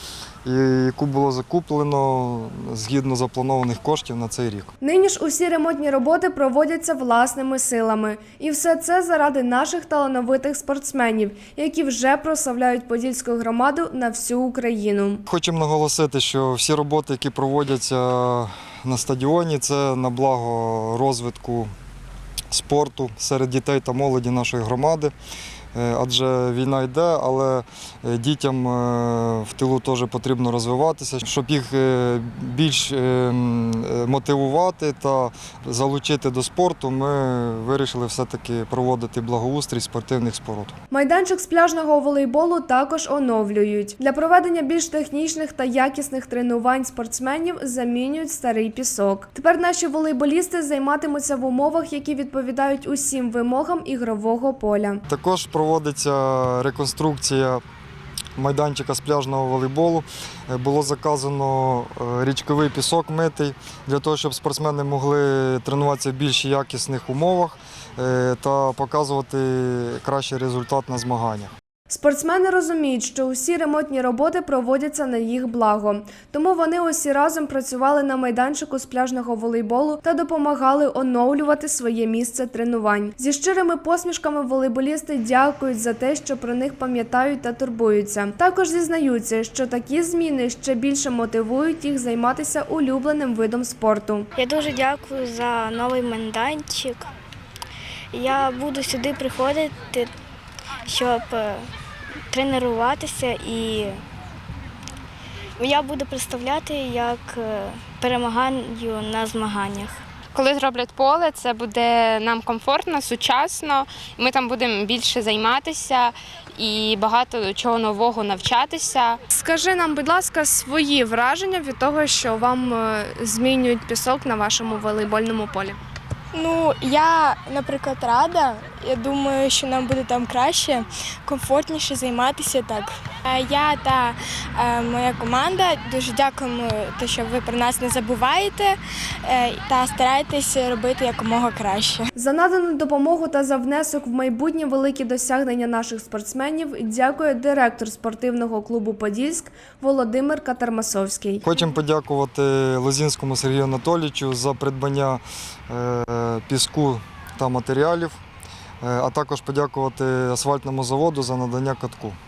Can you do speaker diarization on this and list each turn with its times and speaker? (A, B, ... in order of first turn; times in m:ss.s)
0:00.4-0:04.7 A
0:04.8-0:15.2 B
0:15.3-0:21.7 A
0:22.5-0:25.1 A
0:25.7-0:40.7 A
0:40.9-0:55.0 B
0:55.1-0:57.6 A
0:58.4-1:11.5 A
1:11.9-1:34.3 B
1:34.4-1:37.1 C
1:38.1-1:40.1 C
1:40.8-1:41.7 C
1:42.3-1:44.0 C
1:45.6-1:50.0 C
1:50.3-1:59.2 D
1:59.3-2:05.8 B
2:06.3-2:22.1 E
2:22.2-2:31.4 B
2:31.4-2:38.2 A
2:38.8-2:42.2 A